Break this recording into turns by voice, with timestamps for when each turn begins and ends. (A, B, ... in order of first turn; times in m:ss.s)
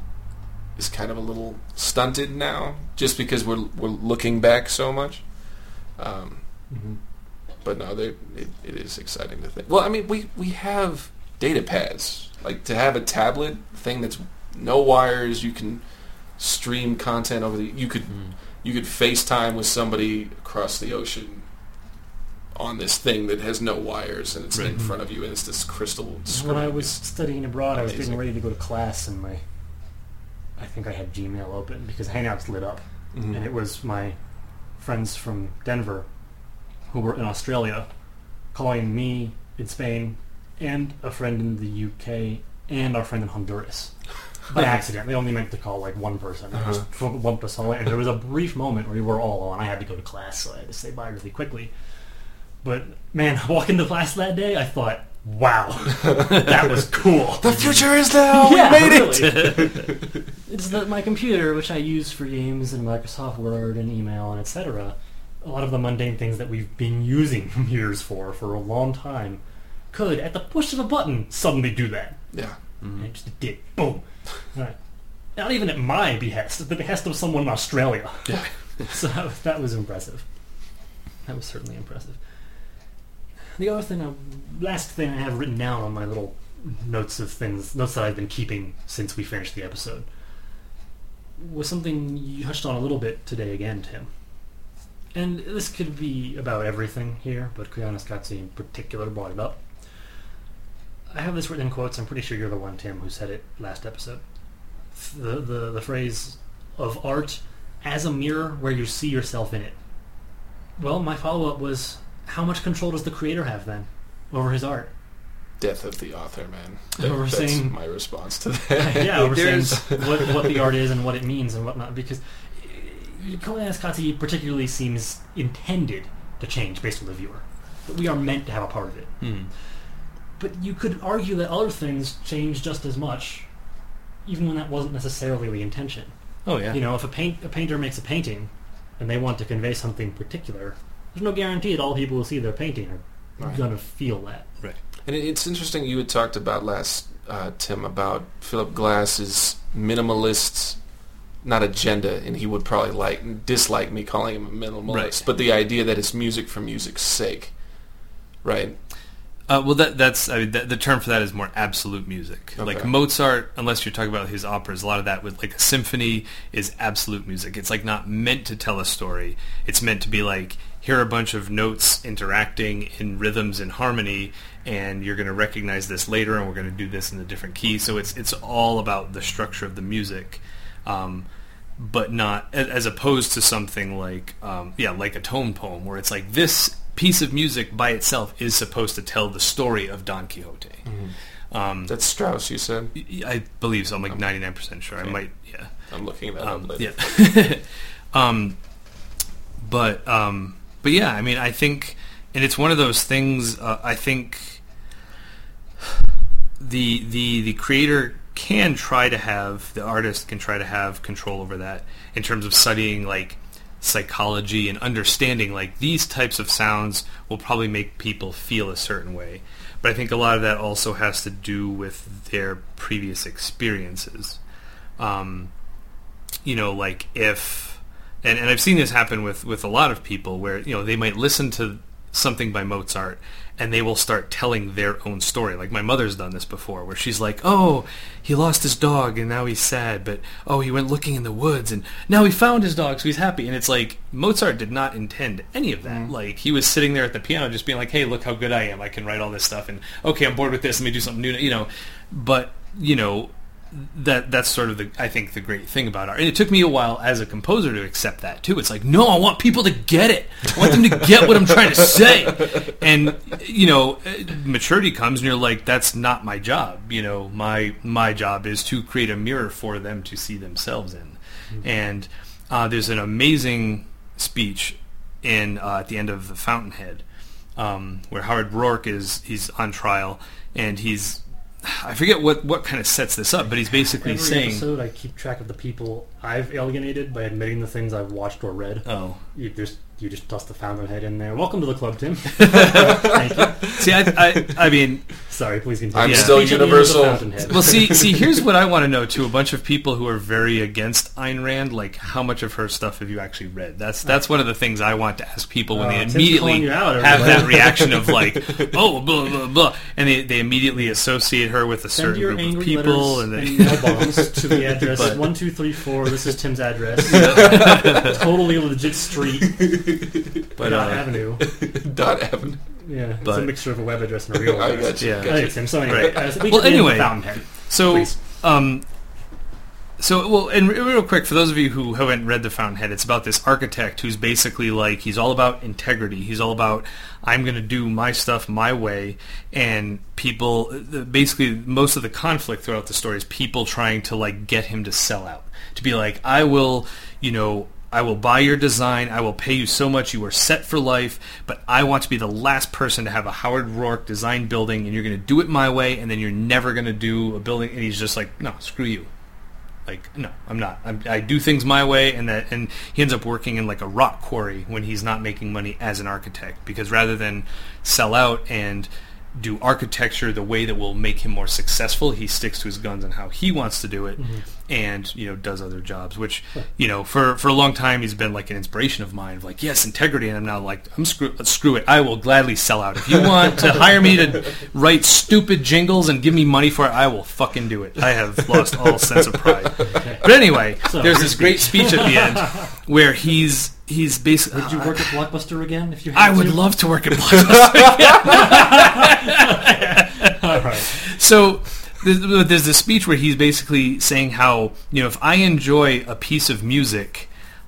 0:00.8-0:06.4 A
0:06.7-0:07.0 B
0:07.6-0:21.5 A
0:22.5-0:27.0 A
0:24.5-0:24.8 C
0:26.3-0:29.4 B
0:27.7-0:28.2 A
0:30.6-0:34.2 B
0:33.1-0:33.4 A
0:34.8-0:36.1 B
0:36.9-0:37.9 B
0:38.5-0:43.9 B
0:44.5-0:51.7 B
0:52.6-0:59.9 B
0:57.4-1:00.0 A
0:59.2-0:59.5 C
1:00.4-1:09.4 B
1:09.9-1:12.2 B
1:12.8-1:13.1 C
1:13.0-1:14.8 B
1:15.3-1:20.3 B
1:21.2-1:22.2 B
1:23.6-1:30.1 B
1:31.4-1:34.1 B
1:35.1-1:39.6 B
1:41.1-1:44.2 B
1:44.9-1:49.8 B
1:50.8-1:54.9 B
1:55.6-2:00.5 A
1:57.0-1:57.7 B
1:58.8-2:09.7 B
1:59.2-1:59.8 C
2:09.2-2:09.5 C
2:10.4-2:13.5 B
2:14.2-2:16.1 B
2:16.4-2:16.8 C
2:16.7-2:24.5 B
2:25.0-2:30.8 A
2:31.4-2:37.6 A
2:34.9-2:35.2 C
2:38.4-2:38.8 A
2:39.5-3:01.2 C
2:42.6-2:42.9 A
3:01.8-3:10.9 C
3:10.8-3:11.1 A
3:11.5-3:11.9 C
3:11.9-3:12.9 A
3:12.9-3:15.7 C
3:15.0-3:16.9 A
3:16.2-3:18.6 C
3:19.6-3:24.6 C
3:26.6-3:44.4 C
3:45.0-3:45.5 C
3:46.4-4:37.0 C
4:05.8-4:06.1 A
4:37.6-4:44.6 C
4:43.7-4:53.6 B
4:48.8-4:49.2 C
4:52.4-4:53.1 C
4:52.5-4:54.6 A
4:53.7-4:55.2 C
4:55.3-4:57.8 B
4:55.9-4:58.4 A
4:56.0-4:56.7 C
4:57.5-5:15.3 C
5:05.7-5:07.9 B
5:11.9-5:19.7 B
5:17.1-5:18.2 C
5:17.1-5:18.2 A
5:19.5-5:20.4 A
5:20.6-5:21.2 C
5:20.6-5:21.4 B
5:21.4-5:22.6 A
5:22.8-5:28.2 B
5:23.2-5:23.6 C
5:24.3-5:26.3 A
5:25.0-5:28.8 C
5:30.0-5:59.1 C
5:59.8-6:35.2 C
6:14.2-6:14.4 B
6:29.9-6:32.6 B
6:34.5-6:36.6 B
6:36.1-6:47.3 C
6:38.3-6:41.0 B